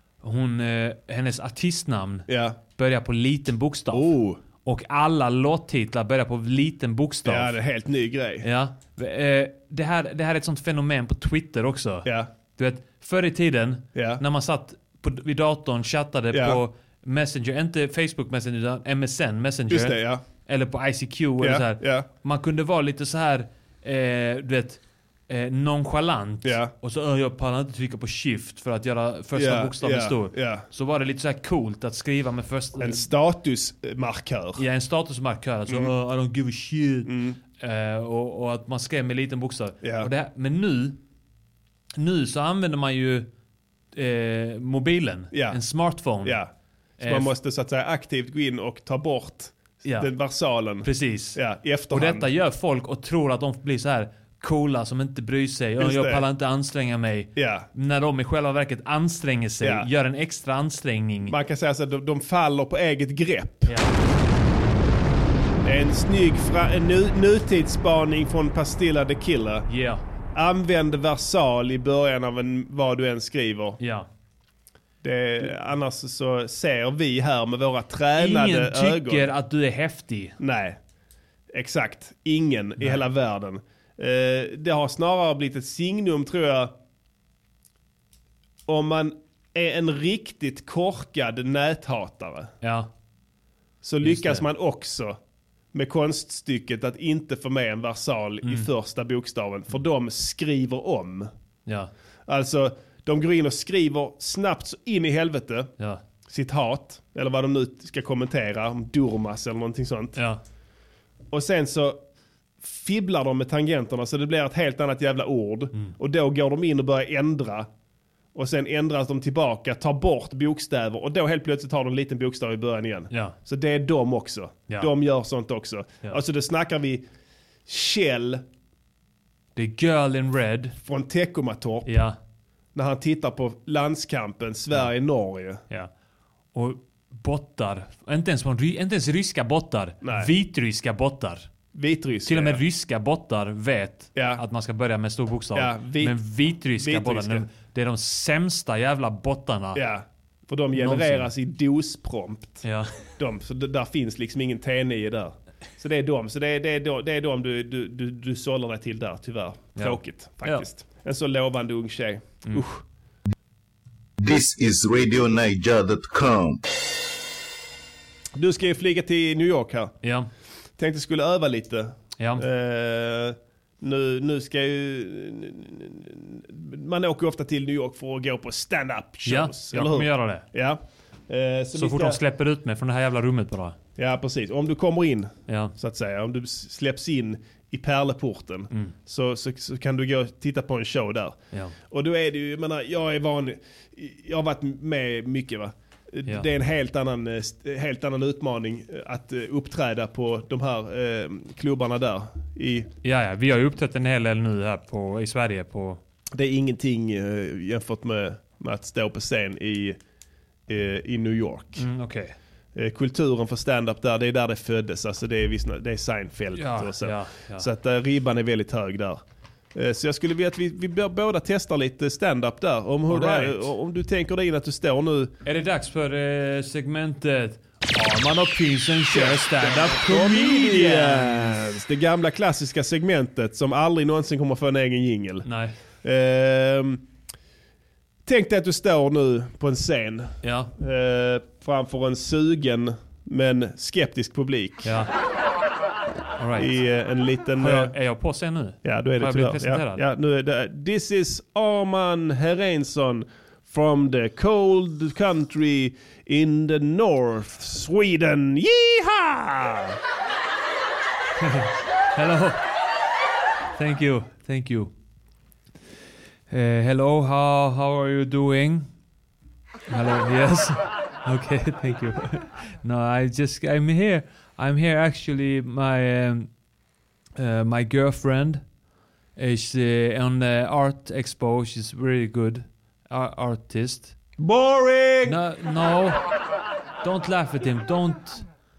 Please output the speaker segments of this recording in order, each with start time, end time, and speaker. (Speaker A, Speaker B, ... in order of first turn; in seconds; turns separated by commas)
Speaker A: 0.2-7.5, Speaker B: 2.3-2.6, Speaker B: 3.9-4.4, Speaker B: 7.2-8.4, Speaker A: 8.4-33.1, Speaker B: 12.1-12.3, Speaker B: 13.9-14.2, Speaker B: 16.3-16.6, Speaker B: 19.7-20.2, Speaker B: 21.4-22.1, Speaker B: 26.4-26.7, Speaker B: 29.3-30.7, Speaker B: 32.8-34.6, Speaker A: 34.6-41.0, Speaker B: 37.0-37.4, Speaker B: 39.8-40.1, Speaker A: 42.0-43.3, Speaker A: 43.9-46.4, Speaker B: 45.3-45.6, Speaker B: 46.2-52.3, Speaker A: 47.0-47.3, Speaker A: 49.8-50.1, Speaker A: 50.8-51.4, Speaker A: 51.9-61.3, Speaker B: 55.8-56.2, Speaker B: 57.3-57.7, Speaker B: 59.6-59.9, Speaker B: 61.3-63.7, Speaker A: 63.7-64.0, Speaker B: 65.6-69.7, Speaker A: 69.7-70.0, Speaker B: 70.3-73.8, Speaker A: 73.8-74.1, Speaker B: 75.0-79.3, Speaker A: 78.2-80.4, Speaker B: 80.4-80.8, Speaker B: 81.5-86.7, Speaker B: 88.7-92.5, Speaker A: 92.6-92.9, Speaker B: 93.8-95.2, Speaker A: 94.0-94.5, Speaker B: 95.7-101.3, Speaker A: 98.4-98.7, Speaker A: 101.7-101.9, Speaker B: 102.3-105.7, Speaker B: 106.3-110.2, Speaker A: 110.2-110.4, Speaker B: 111.3-112.0, Speaker B: 112.6-117.7, Speaker B: 118.3-127.0, Speaker A: 123.1-123.4, Speaker B: 127.7-128.4, Speaker A: 129.6-130.8, Speaker B: 130.8-132.0, Speaker A: 131.9-132.2, Speaker B: 132.7-135.6, Speaker A: 136.5-141.5, Speaker B: 140.0-140.3, Speaker B: 141.7-142.6, Speaker A: 142.3-149.8, Speaker B: 144.1-144.4, Speaker B: 145.6-146.2, Speaker B: 146.7-147.5, Speaker B: 149.7-162.8, Speaker A: 150.7-151.3, Speaker A: 152.6-152.9, Speaker A: 159.8-160.7, Speaker C: 164.2-166.6, Speaker B: 168.4-169.9, Speaker A: 170.0-170.3, Speaker B: 170.8-182.2, Speaker A: 172.2-172.4, Speaker A: 179.3-180.4, Speaker A: 181.7-183.8, Speaker B: 184.0-202.9, Speaker A: 185.5-185.7, Speaker A: 203.0-206.0, Speaker B: 206.3-210.0, Speaker B: 210.7-211.9, Speaker A: 211.8-212.3, Speaker B: 212.7-219.2, Speaker A: 216.6-217.7, Speaker B: 219.7-225.3, Speaker A: 223.1-223.7, Speaker A: 225.4-231.6, Speaker B: 229.1-235.4, Speaker A: 235.4-235.8, Speaker B: 236.0-237.1, Speaker B: 238.3-244.9, Speaker A: 240.4-240.7, Speaker A: 244.8-245.1, Speaker A: 246.4-246.8, Speaker B: 246.6-247.9, Speaker A: 247.6-250.0, Speaker B: 248.8-260.0, Speaker A: 261.4-262.6, Speaker A: 263.8-264.9, Speaker A: 266.5-268.9, Speaker A: 269.9-276.5, Speaker A: 277.4-278.6, Speaker A: 279.4-284.2, Speaker B: 284.4-285.4, Speaker A: 285.2-286.2, Speaker A: 287.0-288.4